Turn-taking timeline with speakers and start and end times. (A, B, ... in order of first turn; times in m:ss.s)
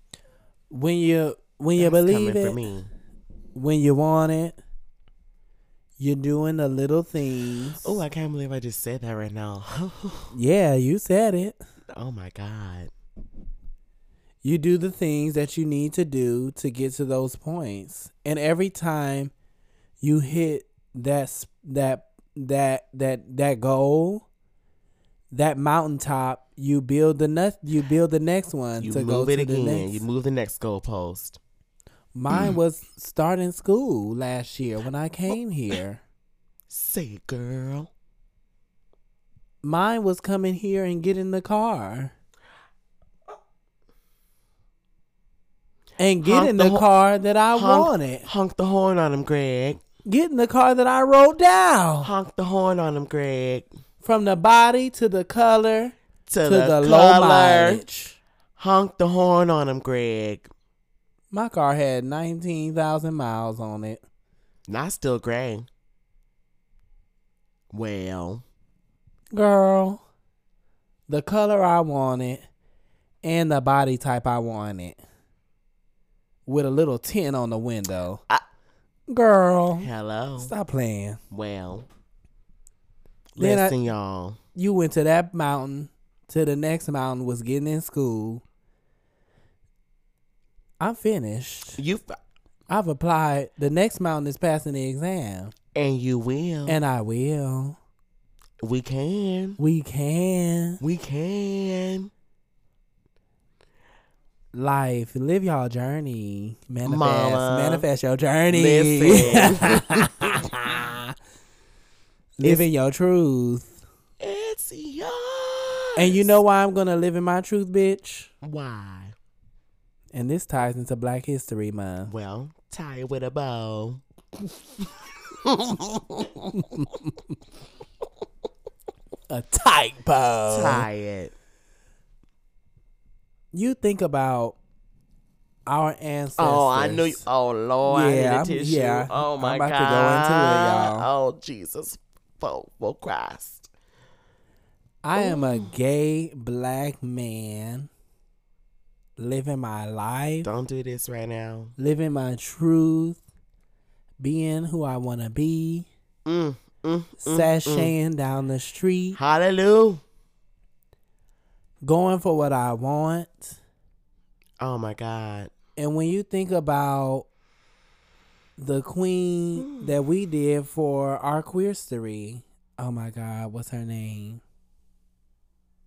0:00.7-0:02.6 A
0:01.8-0:02.9 B
0:03.5-0:04.6 A
0:06.0-0:08.0 A
0:07.8-0:10.3 B
0:10.3-0:11.6 A
0:11.9-0:12.9 B
0:14.4-0:19.3 A
0:20.0-0:24.2 A
0:25.3-0:30.0 A
0:28.8-0:31.4 B
0:32.1-0:36.0 A
0:36.7-0:37.9 B
0:39.6-0:42.1 A
0:46.0-0:48.3 A
0:46.2-0:46.9 B
0:47.5-0:49.8 B
0:50.0-0:52.1 A
0:52.0-0:53.6 B
0:54.0-0:58.2 A
0:56.3-0:57.8 B
0:58.6-1:00.5 B
1:01.3-1:04.0 A
1:04.7-1:05.7 B
1:07.7-1:08.4 B
1:09.3-1:10.0 A
1:11.1-1:12.4 A
1:13.2-1:15.0 A
1:16.5-1:18.2 A
1:19.1-1:21.2 A
1:19.8-1:20.5 B
1:21.3-1:21.9 B
1:23.4-1:24.4 B
1:23.4-1:23.8 A
1:24.5-1:28.4 A
1:30.8-1:31.8 A
1:31.8-1:32.2 B
1:32.7-1:35.5 A
1:35.7-1:36.8 B
1:36.7-1:37.8 A
1:38.6-1:39.6 B
1:39.6-1:40.8 A
1:40.8-1:42.1 B
1:44.5-1:51.1 A
1:46.8-1:47.9 B
1:48.5-1:50.8 B
1:52.4-1:53.8 A
1:52.4-1:52.7 B
1:54.2-1:56.3 B
1:56.0-1:58.3 A
1:58.4-1:59.1 B
2:00.1-2:02.1 A
2:02.1-2:04.0 B
2:05.4-2:06.6 B
2:06.6-2:07.0 A
2:09.3-2:10.9 A
2:10.5-2:11.3 B
2:13.5-2:14.6 A
2:15.7-2:17.2 A
2:16.4-2:23.7 B
2:17.9-2:21.1 A
2:25.0-2:27.9 A
2:25.2-2:25.7 B
2:29.2-2:30.5 A
2:30.4-2:31.7 B
2:31.8-2:33.2 A
2:34.2-2:35.9 A
2:36.2-2:37.9 B
2:37.2-2:39.2 A
2:39.2-2:40.0 B
2:41.8-2:43.6 A
2:44.6-2:45.5 B
2:45.8-2:47.3 A
2:48.6-2:54.4 A
2:49.6-2:49.9 B